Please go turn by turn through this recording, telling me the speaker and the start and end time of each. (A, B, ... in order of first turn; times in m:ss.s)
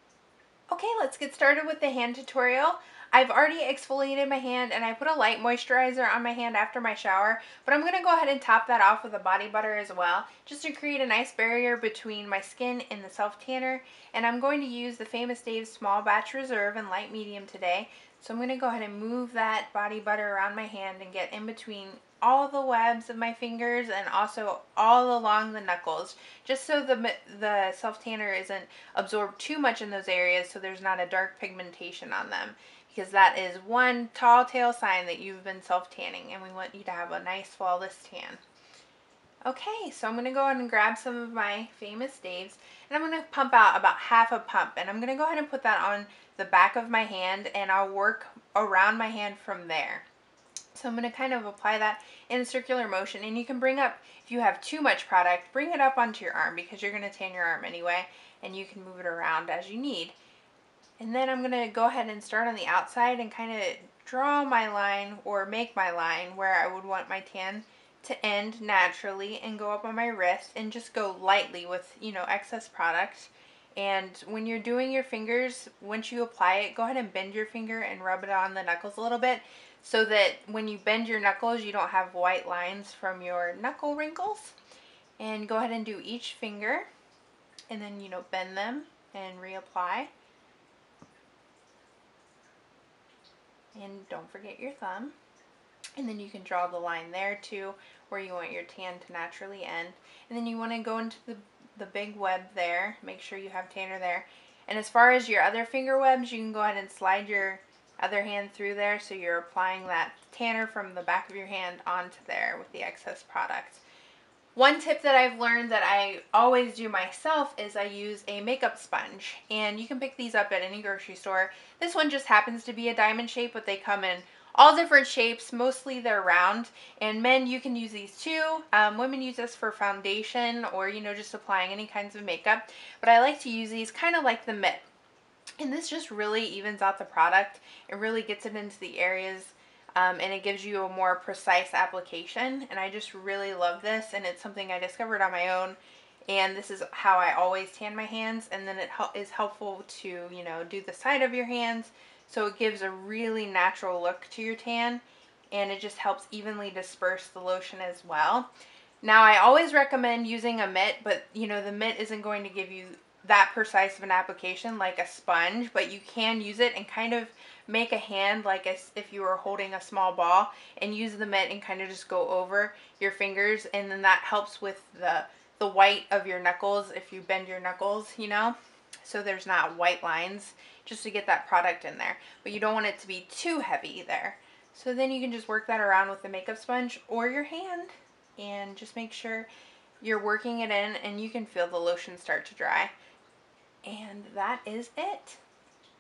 0:00.7-0:38.4 A
0:39.5-0:50.0 A
0:50.7-1:00.2 A
1:01.0-1:24.6 A
1:25.2-1:26.9 A
1:27.7-1:30.1 A
1:33.8-1:35.2 A
1:36.0-1:53.8 A
1:54.6-2:14.8 A
2:15.6-2:38.5 A
2:39.0-3:09.5 A
3:10.0-3:12.9 A
3:13.8-3:15.4 A